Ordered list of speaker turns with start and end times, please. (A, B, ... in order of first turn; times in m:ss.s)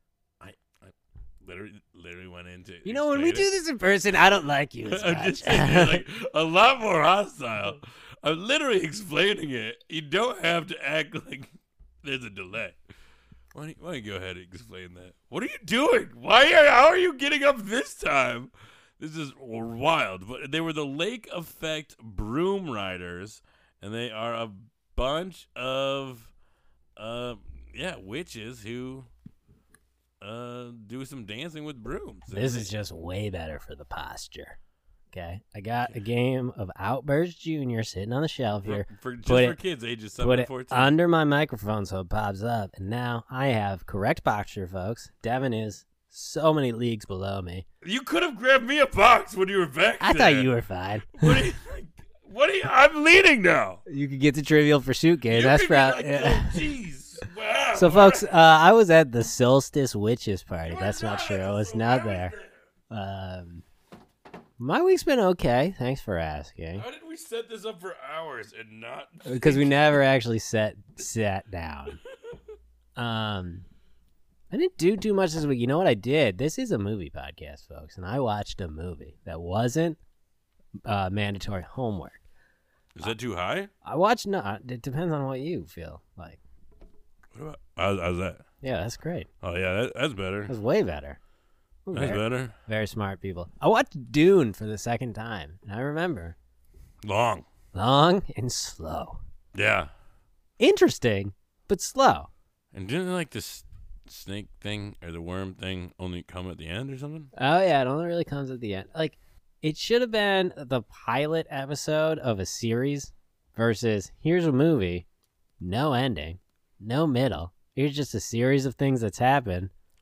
0:00.4-0:03.5 A
0:02.8-0:06.0 B
0:04.8-0:11.5 A
0:12.0-0:12.8 A
0:13.5-0:26.3 A
0:27.0-0:29.1 A
0:30.2-0:32.7 A
0:32.3-0:34.6 B
0:35.1-0:39.6 B
0:38.6-0:40.9 A
0:40.2-0:47.6 B
0:47.8-0:50.5 A
0:50.0-0:51.4 B
0:51.1-0:53.8 A
0:53.9-0:56.6 B
0:55.3-0:58.3 A
0:57.7-1:02.3 B
1:00.6-1:02.6 A
1:02.9-1:03.6 B
1:04.6-1:06.8 B
1:06.8-1:09.8 A
1:09.3-1:12.0 B
1:13.0-1:13.6 B
1:14.5-1:20.0 B
1:20.8-1:22.2 B
1:22.9-1:23.7 A
1:23.8-1:26.4 B
1:27.3-1:28.4 A
1:28.6-1:29.3 B
1:29.4-1:30.5 A
1:30.5-1:31.2 B
1:31.8-1:36.3 B
1:31.9-1:32.5 A
1:37.0-1:37.4 A
1:37.7-1:39.2 B
1:39.5-1:39.9 A
1:40.6-1:42.3 B
1:42.7-1:47.3 A
1:47.4-1:55.0 B
1:55.6-1:59.7 B